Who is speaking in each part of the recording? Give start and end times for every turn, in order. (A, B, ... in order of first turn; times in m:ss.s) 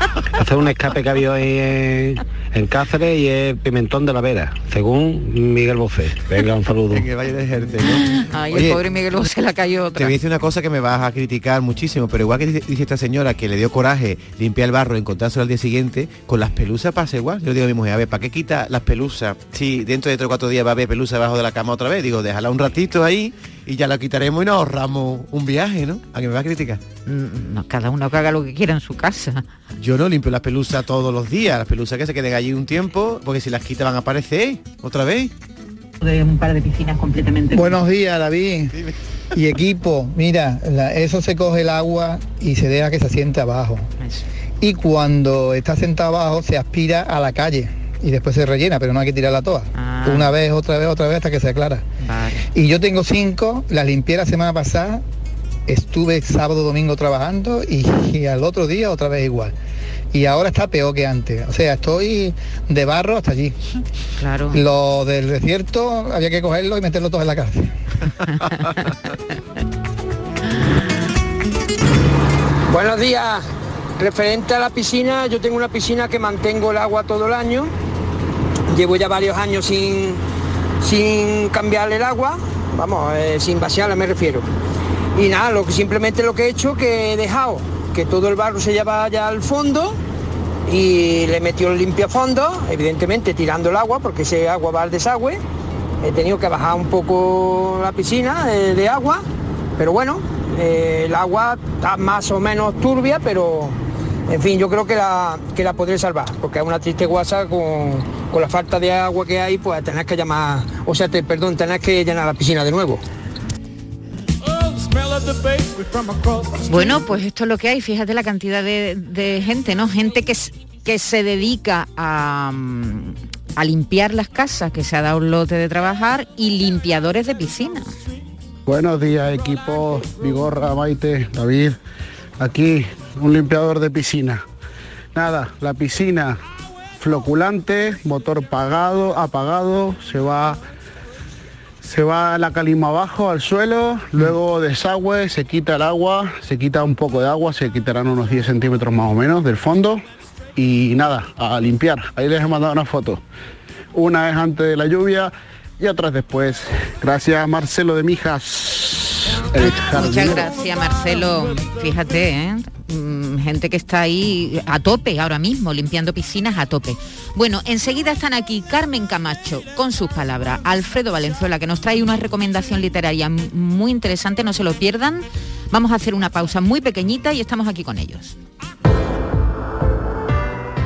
0:00.4-0:07.1 A
0:06.9-0:08.8 B
0:07.9-0:10.1 C
0:09.9-0:26.8 B
0:27.0-0:29.4 C
0:29.8-0:35.3 B
0:36.0-0:37.7 C
0:37.5-0:38.6 D
0:39.4-0:43.8 D
0:44.0-0:44.2 C
0:44.6-0:51.8 D
0:49.7-0:50.3 C
0:52.0-0:52.5 C
0:52.6-0:55.0 D
0:55.7-0:59.5 D
1:00.1-1:03.5 D
1:04.2-1:04.6 C
1:04.5-1:07.5 D
1:08.3-1:08.8 C
1:12.7-1:13.4 E
1:14.0-1:17.7 E
1:18.7-1:20.2 E
1:20.8-1:24.4 E
1:25.2-1:30.0 E
1:30.7-1:35.4 E
1:36.0-1:39.2 E
1:39.8-1:43.7 E
1:44.3-1:53.0 E
1:56.7-2:07.9 C
2:08.6-2:11.8 F
2:12.4-2:14.4 F
2:15.1-2:16.4 F
2:17.0-2:20.6 F
2:21.8-2:30.0 F
2:30.6-2:33.2 F
2:33.9-2:40.5 F
2:39.6-2:58.4 C